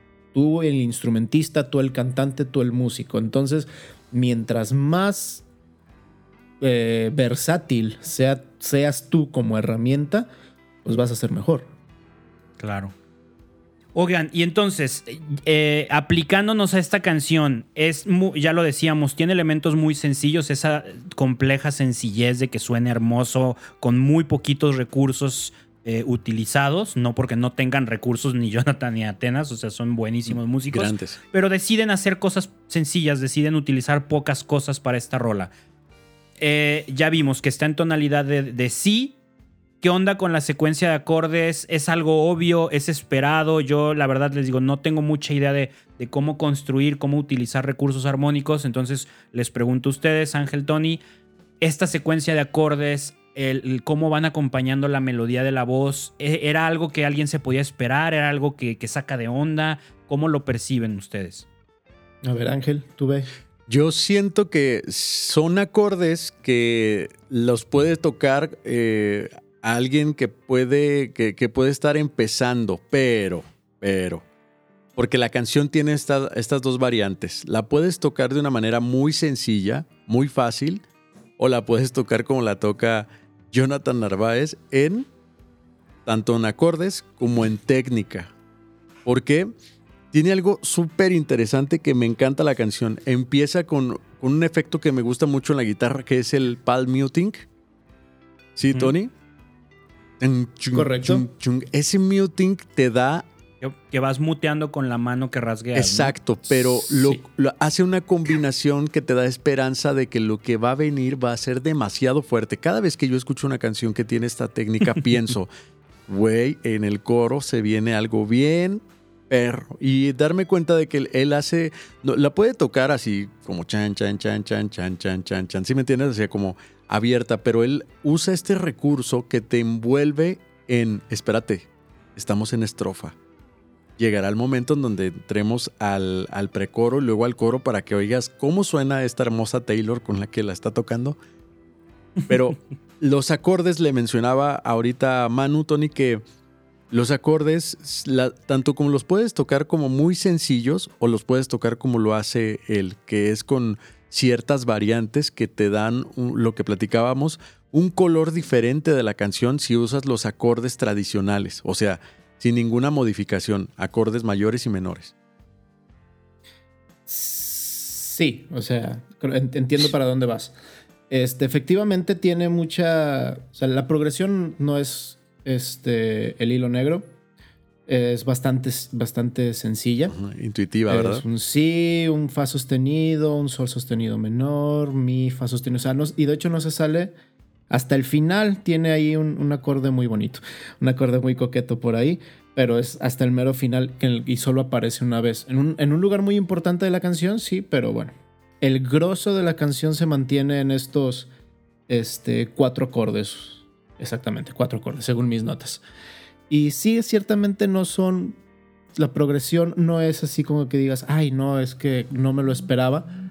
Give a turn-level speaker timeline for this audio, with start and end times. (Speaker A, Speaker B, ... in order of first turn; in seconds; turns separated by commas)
Speaker A: 0.3-5.4, Speaker A: 6.6-10.3, Speaker A: 10.8-11.7, Speaker B: 12.6-12.9, Speaker B: 13.9-35.5, Speaker C: 30.3-31.2, Speaker B: 36.4-39.2, Speaker B: 39.8-51.0, Speaker B: 51.6-61.5, Speaker A: 62.2-63.3, Speaker C: 63.7-74.2, Speaker C: 75.0-80.8, Speaker C: 81.4-85.1, Speaker C: 86.1-88.3, Speaker C: 89.0-89.5, Speaker C: 90.1-97.5, Speaker C: 98.6-99.1, Speaker C: 100.2-103.3, Speaker A: 100.7-101.3, Speaker B: 103.6-106.2, Speaker C: 105.8-115.5, Speaker C: 116.1-133.2, Speaker C: 134.0-141.2, Speaker C: 142.3-146.2, Speaker C: 146.9-165.1, Speaker A: 167.1-170.5, Speaker A: 171.1-177.1, Speaker A: 177.9-180.2, Speaker C: 180.1-181.2, Speaker A: 180.9-187.1, Speaker A: 187.7-201.3, Speaker A: 201.9-205.8, Speaker A: 206.5-208.4, Speaker A: 209.0-213.1